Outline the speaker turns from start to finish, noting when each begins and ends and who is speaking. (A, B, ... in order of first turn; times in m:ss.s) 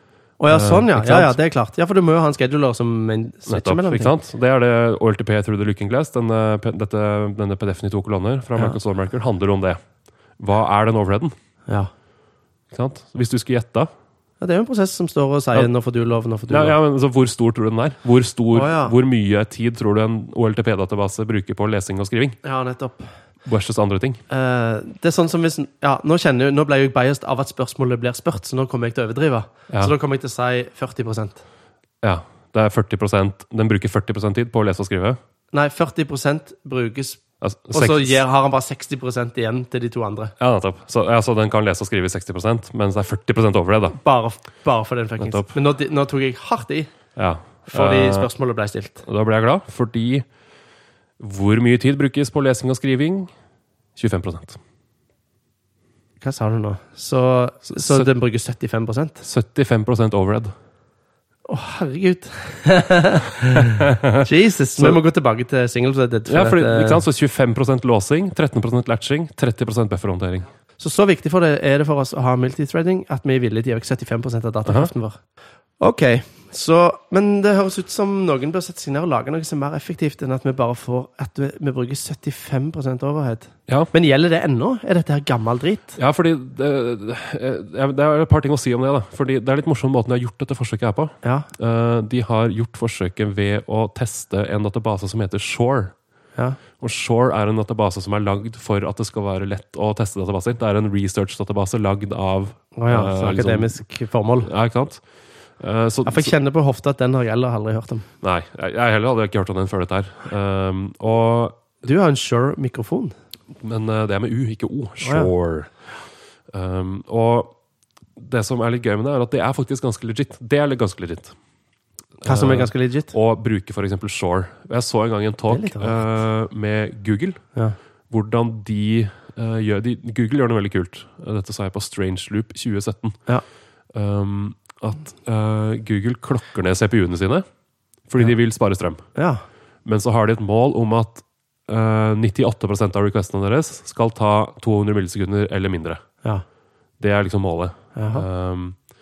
0:00.4-0:04.1 A
0:00.5-0:01.4 B
0:03.5-0:09.8 B
0:10.4-0:11.3 B
0:12.7-0:13.9 B
0:14.4-0:16.8 A
0:16.5-0:22.4 B
0:18.5-0:19.0 A
0:22.4-0:23.1 A
0:23.5-0:24.2 B
0:24.3-0:31.4 A
0:32.0-0:35.2 B
0:35.5-0:40.3 A
0:37.4-0:38.2 B
0:40.4-0:44.0 B
0:44.0-0:46.9 A
0:45.2-0:45.5 B
0:47.2-0:48.3 B
0:47.7-0:49.0 A
0:49.0-0:50.3 B
0:51.2-0:53.3 B
0:54.0-0:54.6 B
0:56.2-0:59.2 A
0:57.7-0:58.1 B
0:59.2-1:00.5 B
1:01.5-1:07.0 A
1:03.6-1:04.2 B
1:04.8-1:05.0 B
1:06.3-1:10.5 B
1:10.8-1:15.2 A
1:14.7-1:14.9 B
1:15.8-1:26.0 A
1:26.0-1:35.9 B
1:31.2-1:31.5 A
1:36.8-1:43.8 B
1:42.8-1:44.5 A
1:44.4-1:45.0 B
1:45.6-1:46.3 B
1:46.1-1:48.1 A
1:48.2-1:51.6 B
1:51.8-1:53.1 A
1:53.6-1:55.7 B
1:55.0-1:55.3 A
1:56.5-1:57.5 B
1:58.2-2:01.4 B
2:02.2-2:07.4 B
2:02.2-2:03.1 A
2:05.5-2:06.0 A
2:08.1-2:13.2 B
2:13.9-2:17.4 B
2:18.1-2:19.0 B
2:19.2-2:19.4 A
2:19.8-2:26.0 B
2:27.0-2:28.8 B
2:28.0-2:28.2 A